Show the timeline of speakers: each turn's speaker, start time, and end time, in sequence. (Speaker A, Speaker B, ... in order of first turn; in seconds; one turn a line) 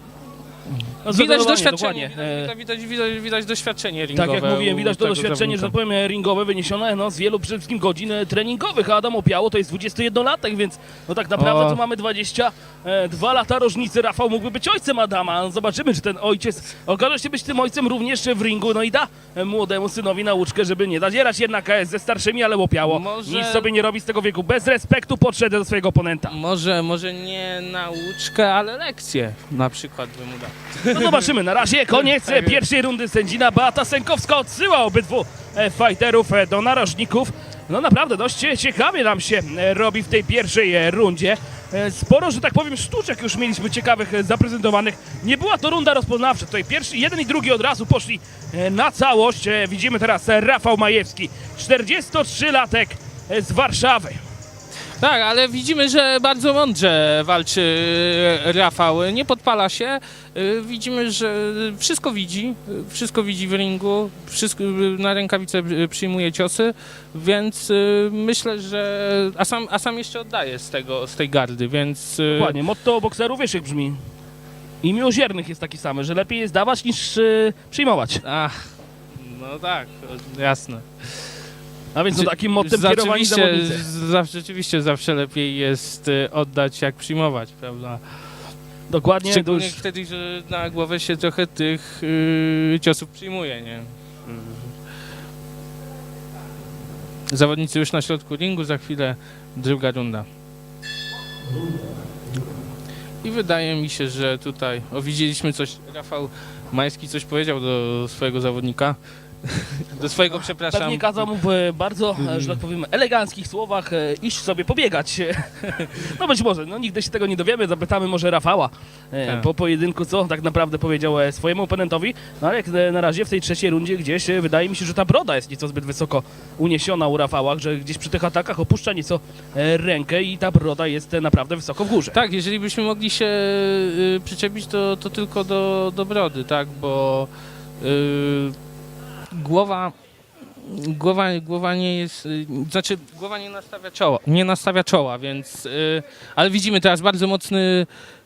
Speaker A: 1.0-5.7
Speaker B: 1.1-2.5
Speaker B: 4.2-26.3
Speaker A: 11.4-11.8
Speaker A: 22.8-23.7
Speaker A: 26.3-31.2
Speaker B: 30.8-54.2
Speaker A: 32.0-32.6
Speaker A: 55.0-72.5
Speaker B: 72.3-74.0
Speaker B: 74.8-78.2
Speaker A: 78.2-78.6
Speaker A: 79.2-80.8
Speaker B: 81.9-83.8
Speaker A: 82.1-88.0
Speaker B: 88.9-89.8
Speaker A: 89.2-94.7
Speaker A: 97.3-100.2
Speaker A: 103.2-111.2
Speaker B: 110.3-132.2
Speaker A: 132.1-137.3
Speaker A: 137.8-138.5
Speaker A: 139.3-139.9
Speaker A: 140.6-147.9